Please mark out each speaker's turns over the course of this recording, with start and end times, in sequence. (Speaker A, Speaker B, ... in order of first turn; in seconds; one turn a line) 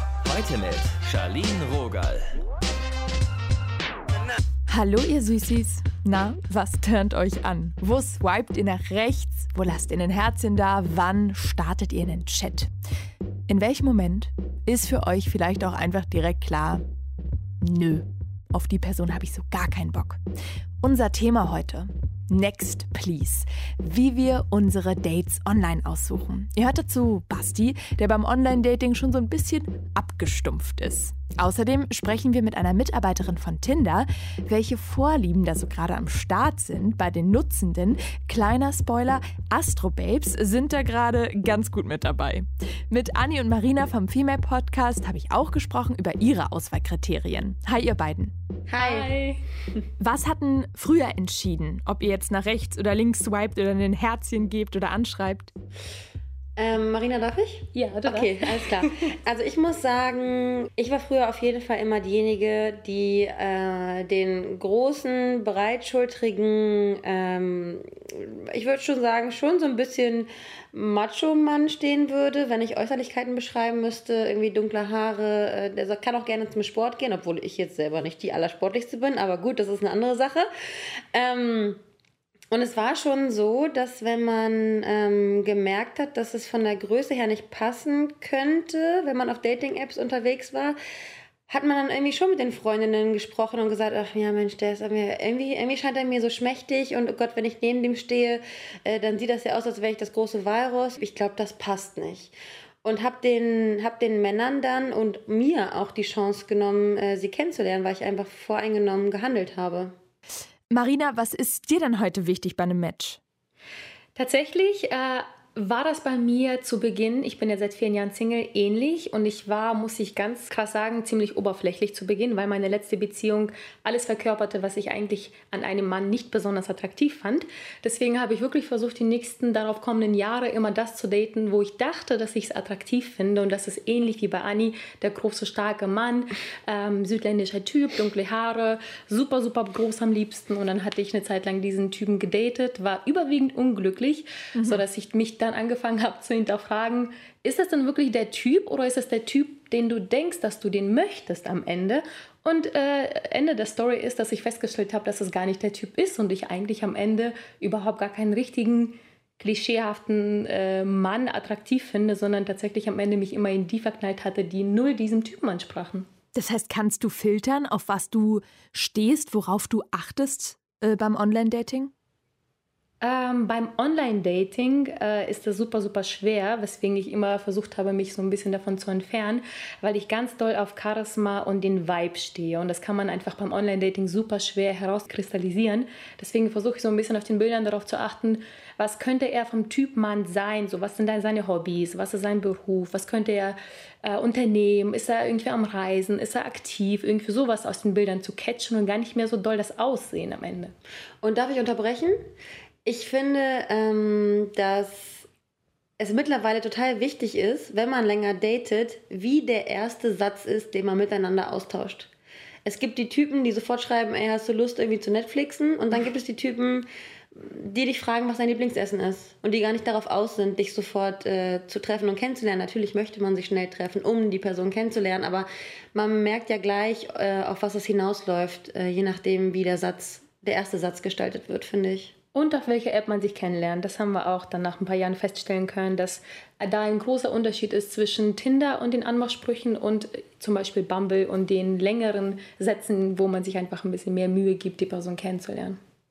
Speaker A: 0.2-2.4
Speaker B: 4.7-12.7
Speaker B: 13.5-16.8
Speaker B: 17.6-20.2
Speaker B: 20.8-48.3
Speaker C: 48.7-49.1
Speaker D: 48.8-49.4
Speaker B: 50.0-55.5
Speaker C: 56.6-81.8
Speaker D: 57.7-58.9
Speaker C: 82.5-90.8
Speaker C: 91.5-110.0
Speaker B: 110.7-113.2
Speaker D: 114.2-166.1
Speaker B: 144.6-144.8
Speaker B: 166.3-171.9
Speaker D: 173.0-200.7
Speaker C: 201.2-202.2
Speaker C: 202.8-205.2
Speaker C: 206.0-212.1
Speaker C: 212.6-232.1
Speaker D: 232.3-245.8